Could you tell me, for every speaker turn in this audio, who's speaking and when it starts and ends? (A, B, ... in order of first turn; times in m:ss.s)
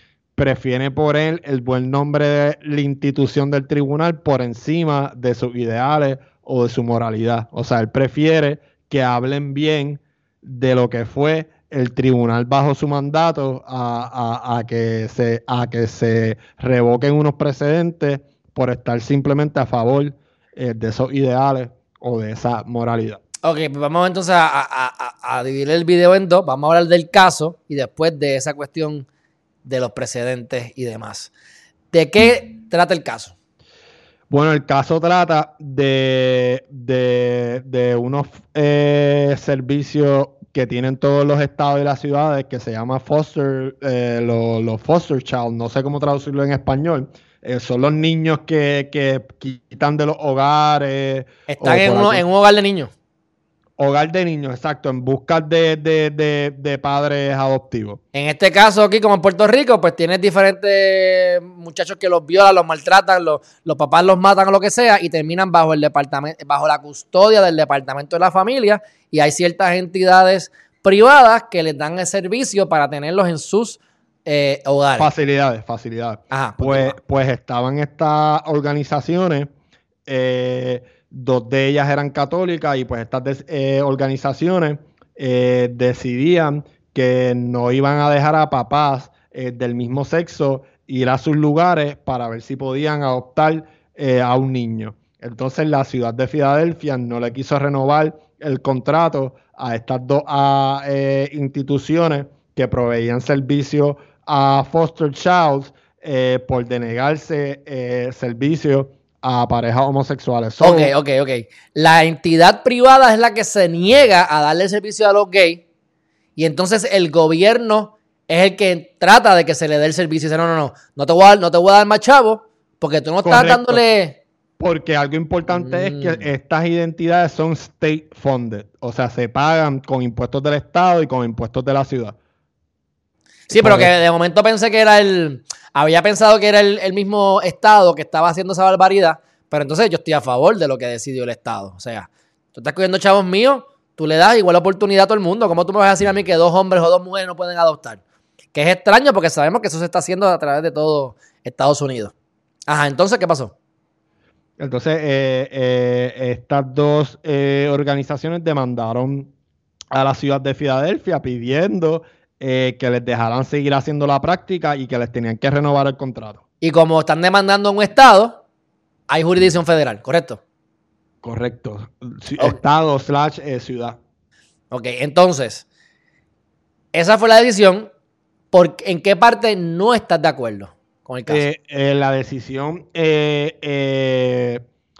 0:00.4-0:23.2 A
0:23.4-0:29.1 B
0:29.6-0:31.3 B
0:31.9-0:33.3 B
0:34.3-0:52.2 A
0:51.5-0:52.9 B
0:53.8-0:58.0 A
0:58.1-1:15.1 B
1:15.0-1:19.5 A
1:16.3-1:17.0 B
1:20.1-1:50.9 A
1:50.6-1:55.6 B
1:56.4-2:04.2 B
2:03.2-2:03.8 A
2:04.6-2:12.2 A
2:05.5-2:06.3 B
2:13.5-2:28.0 B
2:13.5-2:13.9 A
2:28.5-2:32.1 B
2:32.7-2:33.5 B
2:34.6-2:39.3 A
2:39.9-2:46.4 A
2:46.6-2:48.4 B
2:49.1-2:50.4 B
2:51.2-2:54.0 A
2:54.7-2:55.6 B
2:56.9-2:57.9 B
2:58.5-3:01.4 B
3:01.3-3:04.6 A